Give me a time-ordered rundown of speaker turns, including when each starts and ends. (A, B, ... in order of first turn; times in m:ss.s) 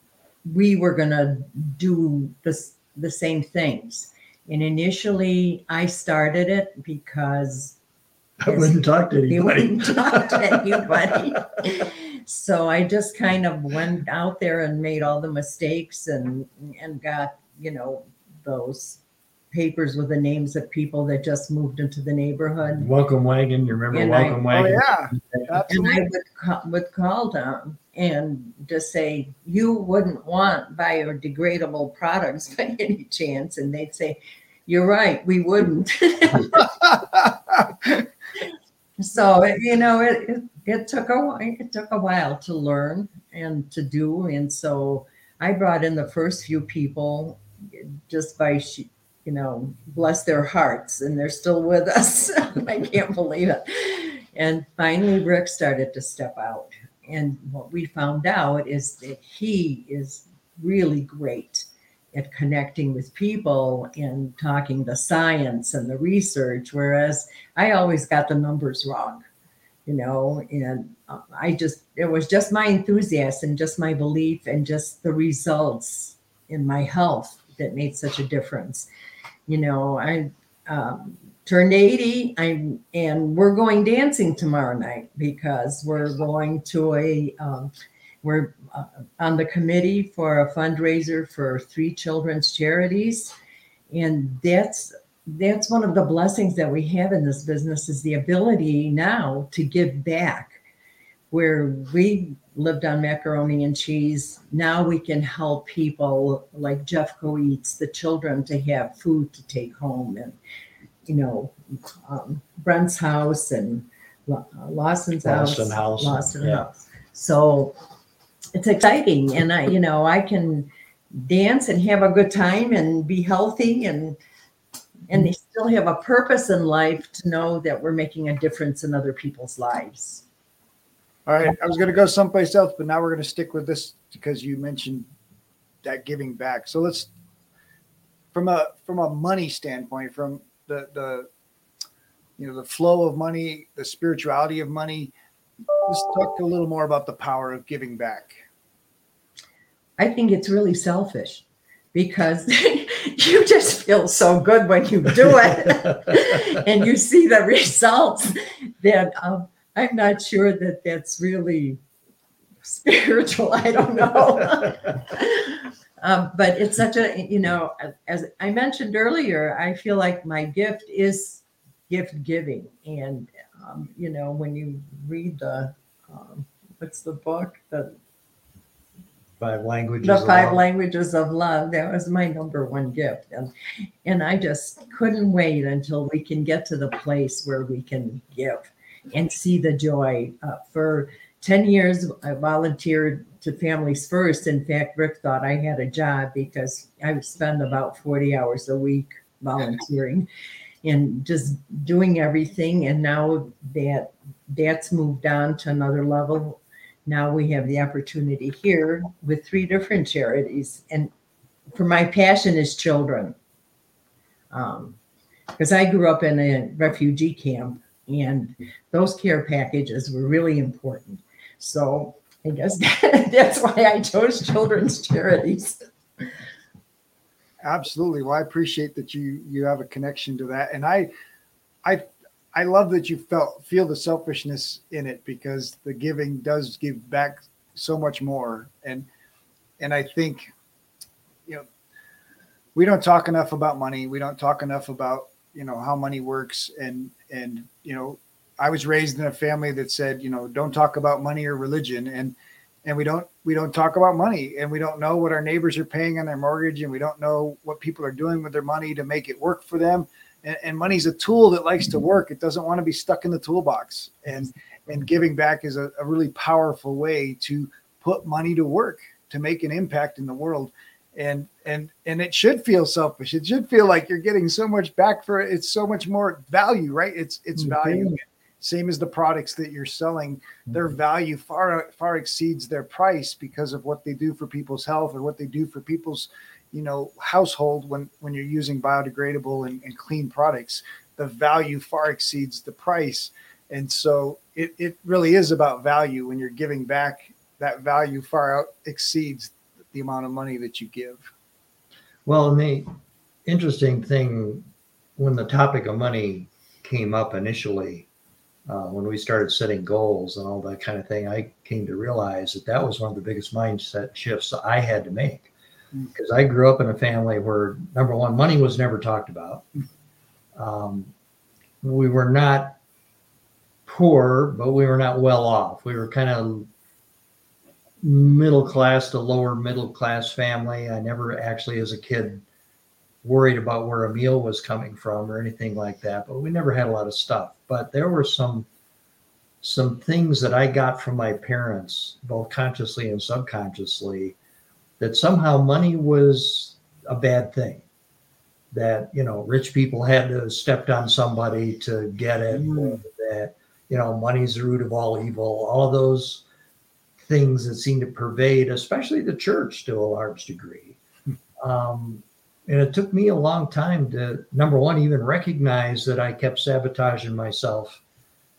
0:00.4-0:07.8 A
0:08.4-0:11.2 B
0:08.5-0:19.0 A
0:19.5-0:22.9 A
0:22.8-0:25.4 B
0:23.9-0:24.4 A
0:24.5-0:26.0 C
0:25.7-0:37.0 A
0:39.0-1:09.2 A
1:09.8-1:18.9 A
1:19.5-1:27.7 A
1:28.2-1:33.3 A
1:33.9-1:40.6 A
1:41.3-1:50.4 A
1:51.1-1:57.7 A
1:55.2-1:56.7 B
1:58.5-2:04.2 A
2:05.1-2:10.2 A
2:11.3-2:15.1 C
2:15.8-2:17.1 C
2:18.3-2:21.3 C
2:22.4-2:25.1 C
2:25.8-2:28.4 C
2:30.0-2:41.8 A
2:42.6-2:58.0 A
2:59.4-3:00.6 B
3:00.0-3:03.5 A
3:04.0-3:20.3 A
3:20.8-3:31.1 A
3:31.7-3:33.3 A
3:34.5-3:35.0 A
3:35.6-3:46.3 A
3:47.6-3:51.1 C
3:51.8-3:59.1 C
3:59.8-4:00.5 C
4:02.7-5:01.3 C
5:02.2-5:02.9 B
5:03.4-5:04.6 B
5:05.2-5:08.1 B
5:08.7-5:15.5 B
5:16.1-5:19.6 B
5:20.5-5:21.1 B
5:21.8-5:22.8 B
5:23.8-5:26.7 B
5:28.0-5:32.4 B
5:33.2-5:38.7 B
5:39.6-5:44.3 B
5:45.0-5:47.8 B
5:48.7-5:56.4 B
5:52.6-5:53.0 C
5:57.2-6:01.0 B
6:01.6-6:08.0 B